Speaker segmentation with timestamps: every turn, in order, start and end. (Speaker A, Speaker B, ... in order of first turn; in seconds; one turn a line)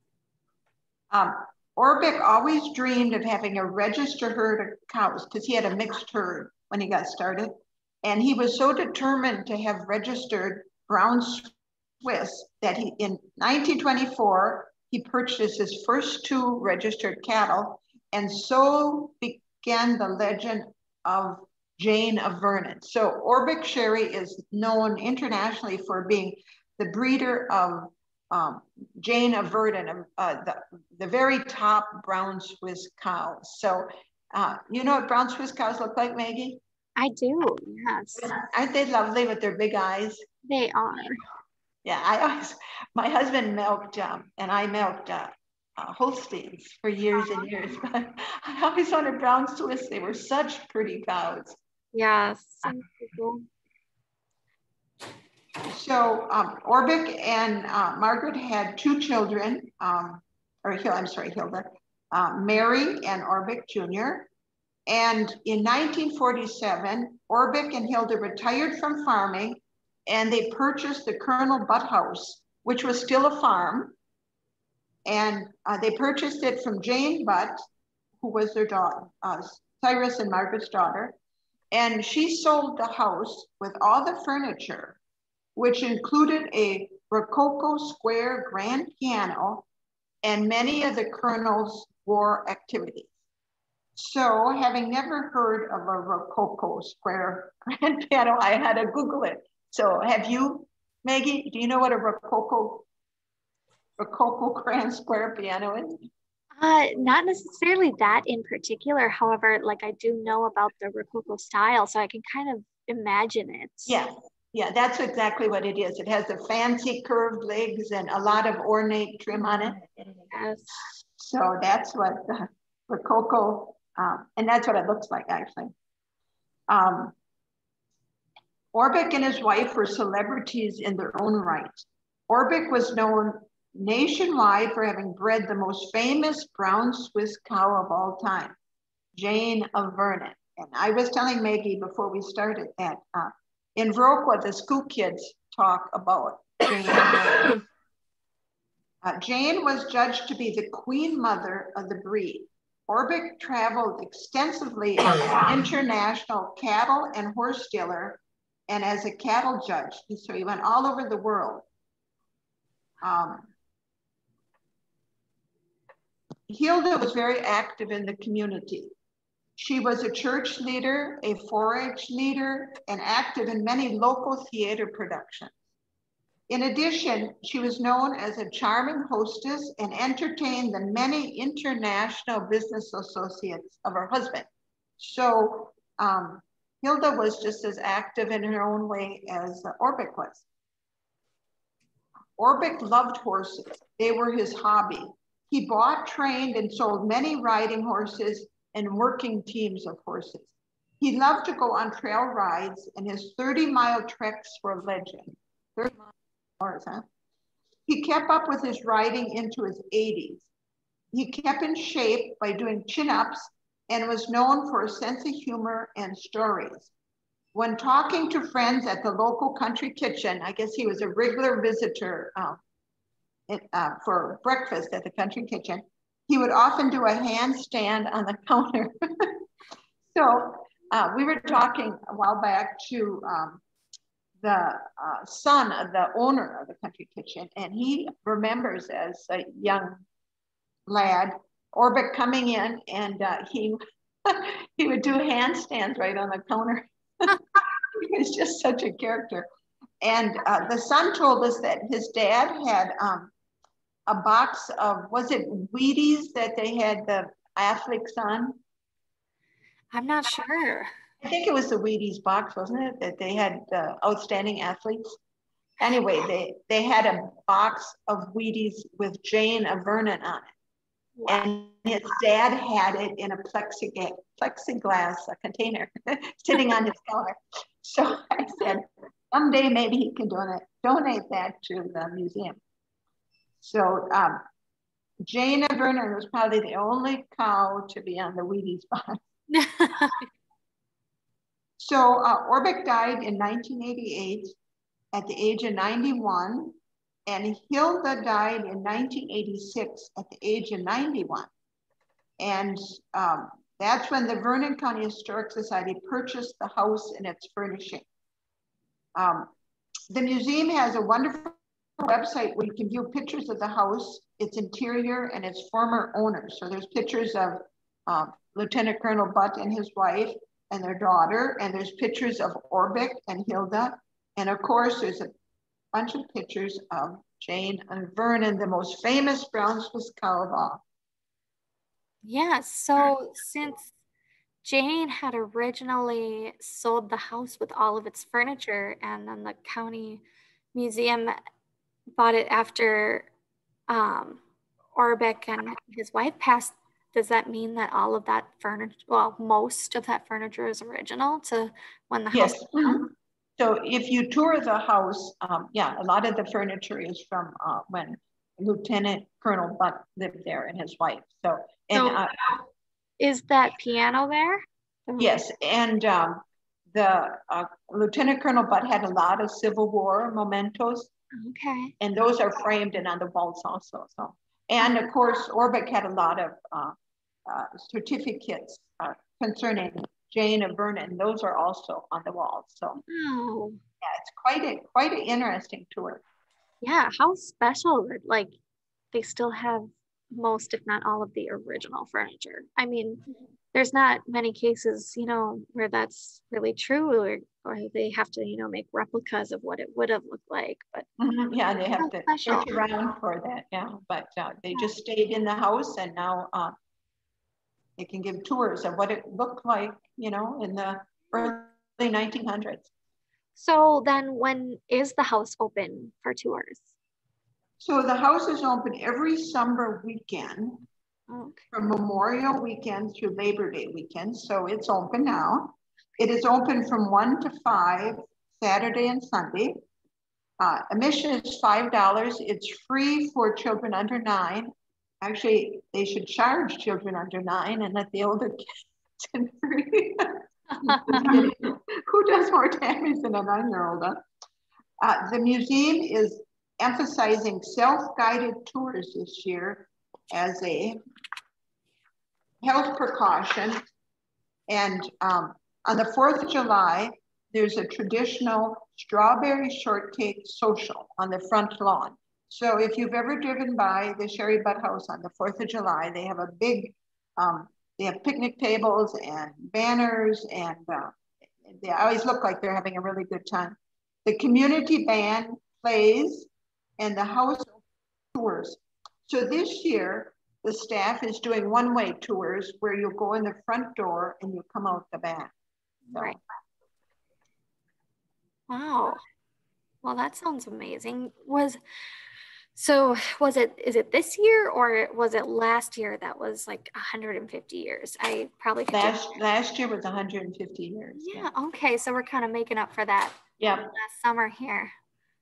Speaker A: 1.1-36.6
Speaker B: 37.0-38.3
Speaker A: 38.2-40.2
Speaker B: 40.4-41.2
Speaker A: 41.8-51.6
Speaker B: 47.2-47.5
Speaker B: 51.9-53.5
Speaker A: 55.7-64.3
Speaker A: 64.9-73.9
Speaker A: 75.0-77.6
Speaker A: 78.2-81.2
Speaker A: 81.7-85.0
Speaker A: 85.5-89.7
Speaker A: 90.2-93.1
Speaker A: 94.0-102.9
Speaker A: 104.0-106.1
Speaker B: 106.6-114.0
Speaker A: 113.9-119.8
Speaker B: 120.3-120.8
Speaker A: 121.2-125.7
Speaker A: 126.7-127.1
Speaker A: 128.7-138.6
Speaker A: 139.1-147.6
Speaker A: 149.0-161.7
Speaker A: 163.0-163.5
Speaker A: 166.5-168.9
Speaker A: 169.6-175.5
Speaker A: 176.5-184.5
Speaker A: 185.0-190.4
Speaker A: 192.4-207.0
Speaker A: 207.9-210.5
Speaker A: 211.1-216.9
Speaker A: 217.5-222.6
Speaker A: 223.5-229.4
Speaker A: 230.1-233.6
Speaker A: 234.4-240.0
Speaker A: 240.9-249.4
Speaker A: 250.0-253.3
Speaker A: 254.1-258.6
Speaker B: 259.9-260.9
Speaker A: 261.2-265.0
Speaker A: 265.8-270.5
Speaker B: 271.1-271.4
Speaker A: 271.2-282.6
Speaker A: 283.6-284.4
Speaker A: 285.2-289.2
Speaker B: 289.5-290.2
Speaker A: 291.8-294.5
Speaker A: 295.1-301.5
Speaker A: 302.4-308.1
Speaker A: 309.1-309.5
Speaker A: 310.1-325.3
Speaker A: 325.9-330.8
Speaker B: 332.2-333.9
Speaker B: 334.6-340.2
Speaker B: 340.7-341.4
Speaker B: 342.2-343.3
Speaker B: 343.9-344.4
Speaker B: 344.9-353.1
Speaker A: 352.3-362.3
Speaker B: 361.9-362.2
Speaker B: 363.2-365.4
Speaker A: 365.2-366.4
Speaker A: 366.9-371.1
Speaker B: 371.3-371.9
Speaker A: 372.0-376.9
Speaker B: 374.8-375.1
Speaker A: 377.4-383.0
Speaker B: 383.0-383.8
Speaker A: 384.0-386.2
Speaker B: 386.8-388.5
Speaker B: 389.1-401.1
Speaker A: 401.2-406.8
Speaker B: 402.0-402.7
Speaker A: 408.0-412.9
Speaker B: 413.6-416.9
Speaker A: 417.8-420.9
Speaker B: 421.3-421.6
Speaker A: 421.7-429.8
Speaker A: 430.6-438.6
Speaker A: 439.2-444.2
Speaker B: 440.7-441.4
Speaker A: 445.0-451.0
Speaker A: 452.6-453.8
Speaker A: 454.7-477.8
Speaker A: 478.3-485.5
Speaker B: 486.1-486.4
Speaker B: 488.7-489.2
Speaker B: 490.0-491.8
Speaker B: 492.7-499.2
Speaker A: 498.9-501.5
Speaker B: 501.2-503.4
Speaker A: 503.6-503.9
Speaker B: 503.9-504.9